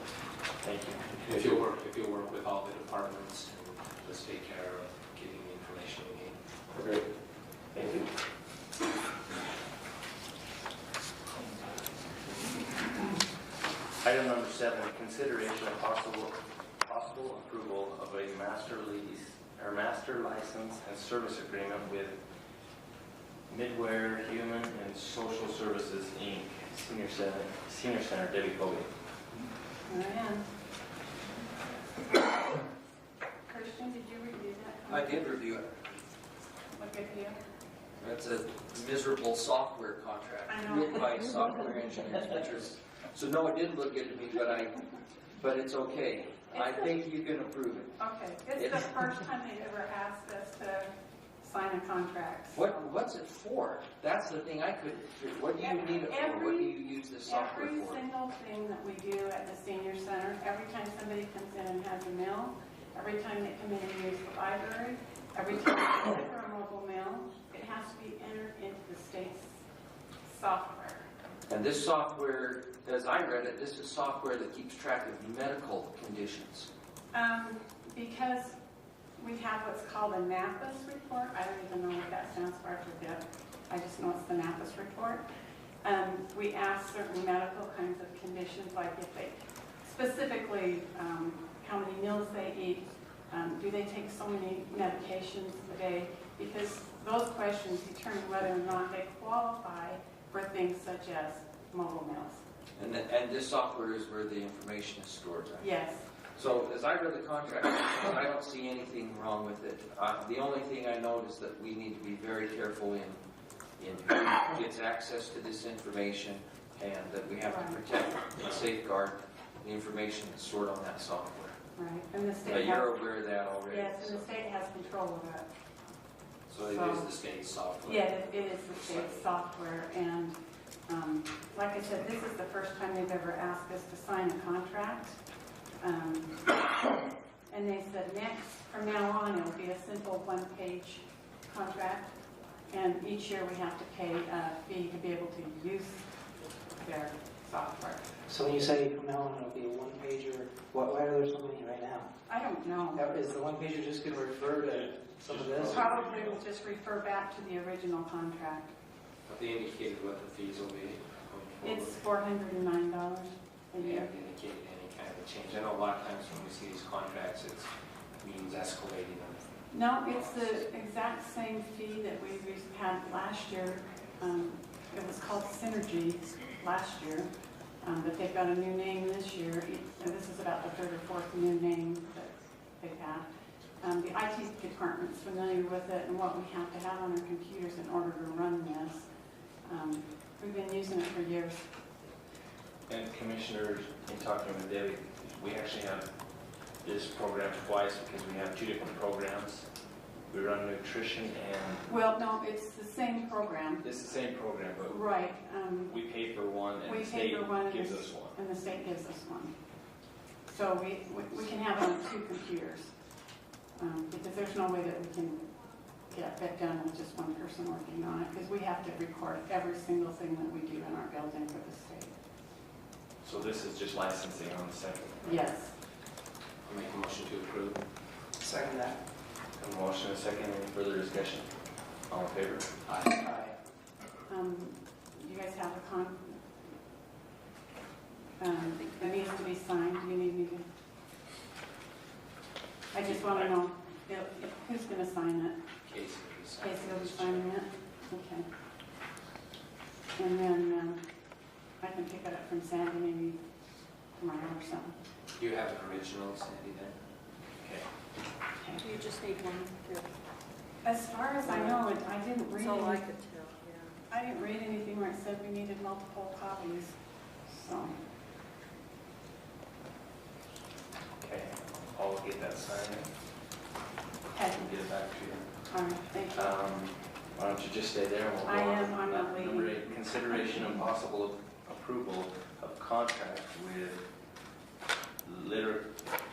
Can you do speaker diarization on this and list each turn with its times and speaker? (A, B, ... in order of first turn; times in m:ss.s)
0:00.6-0:01.1 A
0:01.2-0:06.4 B
0:14.0-0:22.2 A
0:23.5-0:28.9 A
0:29.9-0:30.4 C
0:33.5-0:35.4 C
0:34.9-0:35.7 D
0:36.7-0:37.4 C
0:38.0-0:44.8 D
0:40.5-0:41.1 C
0:45.4-0:48.0 D
0:46.5-0:47.0 C
0:48.0-0:53.0 C
0:48.6-0:48.8 D
0:52.5-0:58.0 D
0:55.6-1:09.6 C
1:10.2-1:11.0 C
1:11.5-1:16.7 D
1:17.1-1:18.6 C
1:19.2-1:25.2 C
1:25.8-1:42.4 C
1:42.8-1:45.7 D
1:45.6-1:46.1 C
1:46.4-1:53.2 D
1:53.8-2:01.6 D
1:57.5-1:57.8 C
2:01.8-2:03.0 C
2:02.4-2:04.2 D
2:03.7-2:05.5 C
2:06.5-2:09.3 B
2:06.6-2:07.1 C
2:07.8-2:15.2 C
2:15.8-2:16.4 C
2:17.5-2:22.1 C
2:22.7-2:26.1 C
2:26.8-2:28.0 C
2:28.3-2:32.1 E
2:32.3-2:33.1 C
2:32.9-2:36.0 E
2:35.3-2:36.4 A
2:35.6-2:38.7 C
2:39.3-2:42.0 B
2:41.6-2:44.1 C
2:43.8-2:50.6 B
2:49.7-3:03.3 C
3:03.8-3:09.1 C
3:09.6-3:11.7 C
3:12.9-3:16.1 A
3:16.8-3:19.7 A
3:20.3-3:21.9 A
3:21.9-3:23.9 C
3:23.8-3:25.0 A
3:24.8-3:25.9 C
3:25.9-3:28.4 A
3:26.8-3:29.6 C
3:30.5-3:32.9 C
3:33.8-3:35.4 C
3:36.1-3:42.1 C
3:43.2-3:45.4 A
3:45.2-3:45.7 C
3:46.6-3:47.8 B
3:48.4-3:49.0 E
3:49.6-3:51.5 A
3:52.1-3:52.7 A
3:52.8-3:53.2 B
3:53.2-3:53.5 E
3:54.3-3:56.4 C
3:58.4-4:00.7 C
3:58.6-3:59.5 F
4:02.9-4:05.6 C
4:03.0-4:03.5 B
4:05.8-4:07.6 B
4:06.6-4:08.5 C
4:10.2-4:11.0 C
4:11.8-4:13.4 C
4:14.2-4:15.0 C
4:15.4-4:17.0 B
4:18.6-4:18.8 C
4:18.8-4:20.1 F
4:20.8-4:23.1 C
4:21.4-4:21.9 F
4:22.6-4:24.0 F
4:24.1-4:27.0 C
4:27.5-4:28.0 C
4:31.2-4:33.1 A
4:34.3-4:34.7 C
4:34.5-4:35.5 A
4:35.7-4:36.5 C
4:36.3-4:44.0 A
4:38.4-4:39.9 C
4:45.2-4:46.0 A